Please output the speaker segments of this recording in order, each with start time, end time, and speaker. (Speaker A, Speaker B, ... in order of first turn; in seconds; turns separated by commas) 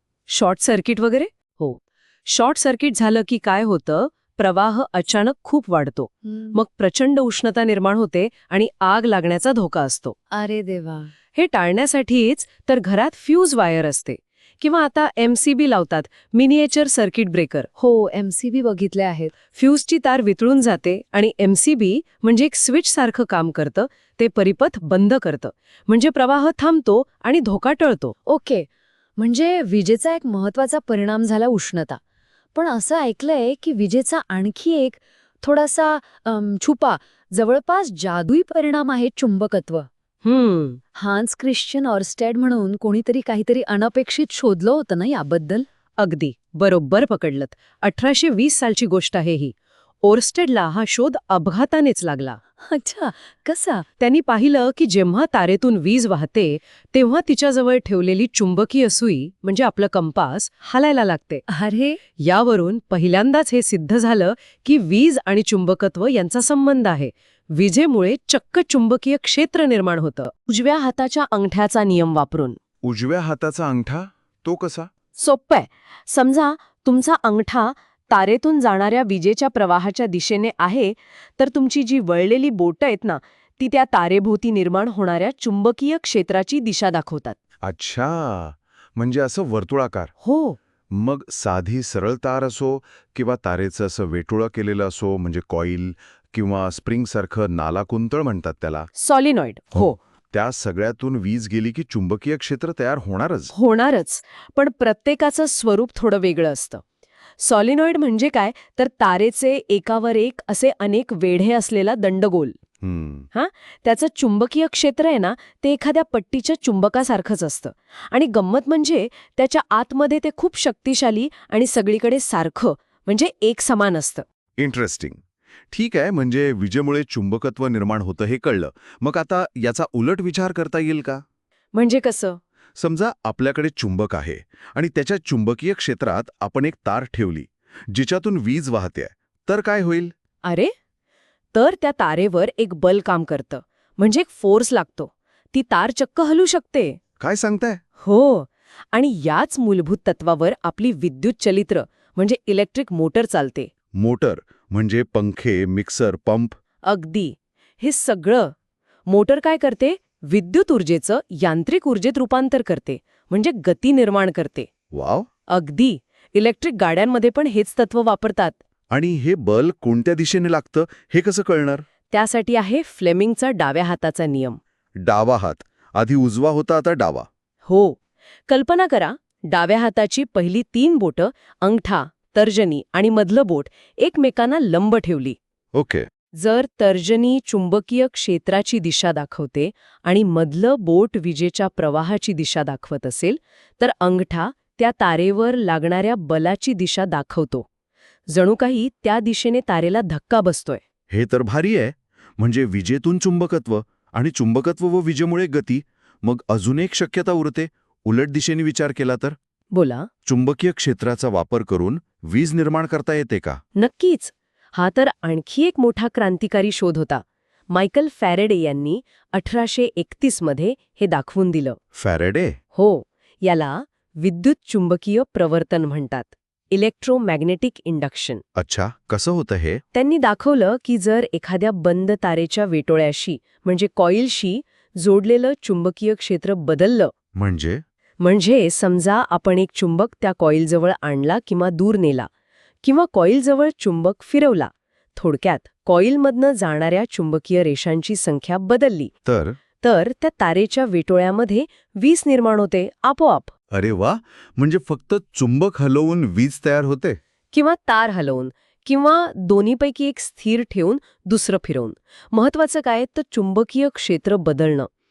Speaker A: 0.3-10.2, Speaker B: 6.3-6.6, Speaker B: 10.3-11.1, Speaker A: 11.3-17.7, Speaker B: 17.8-19.4, Speaker A: 19.5-28.2, Speaker B: 28.3-32.0, Speaker B: 32.5-39.9, Speaker A: 40.2-40.8, Speaker B: 41.0-45.7, Speaker A: 46.0-52.4, Speaker B: 52.6-53.9, Speaker A: 54.0-61.5, Speaker B: 61.5-62.0, Speaker A: 62.2-72.6, Speaker C: 72.8-74.9, Speaker A: 75.2-87.4, Speaker C: 87.6-90.1, Speaker A: 90.2-90.6, Speaker C: 90.9-98.9, Speaker A: 99.0-100.0, Speaker C: 99.8-103.5, Speaker A: 103.5-106.8, Speaker A: 107.4-112.5, Speaker C: 112.8-113.3, Speaker A: 113.3-124.2, Speaker C: 124.6-131.2, Speaker A: 131.7-132.4, Speaker C: 132.8-140.1, Speaker A: 140.4-140.7, Speaker A: 141.5-147.0, Speaker C: 147.2-147.8, Speaker A: 148.0-153.7, Speaker C: 153.9-156.6, Speaker A: 156.8-158.5, Speaker A: 159.1-164.7, Speaker C: 164.9-165.3, Speaker A: 165.5-168.6, Speaker C: 168.9-171.8, Speaker A: 172.1-174.6, Speaker C: 175.0-177.3, Speaker A: 177.7-178.0, Speaker A: 178.5-185.4, Speaker C: 185.7-186.1, Speaker A: 186.3-197.7, Speaker A: 198.3-200.8, Speaker C: 201.1-209.4, Speaker A: 209.7-210.1, Speaker C: 210.2-213.6, Speaker A: 213.8-221.8, Speaker C: 222.0-222.6, Speaker A: 222.7-228.4, Speaker C: 228.6-229.8, Speaker A: 229.9-237.1, Speaker C: 237.3-237.8, Speaker A: 238.2-242.3, Speaker A: 242.8-249.1, Speaker C: 249.3-249.6, Speaker A: 249.8-253.5, Speaker C: 253.7-257.2, Speaker A: 257.5-264.9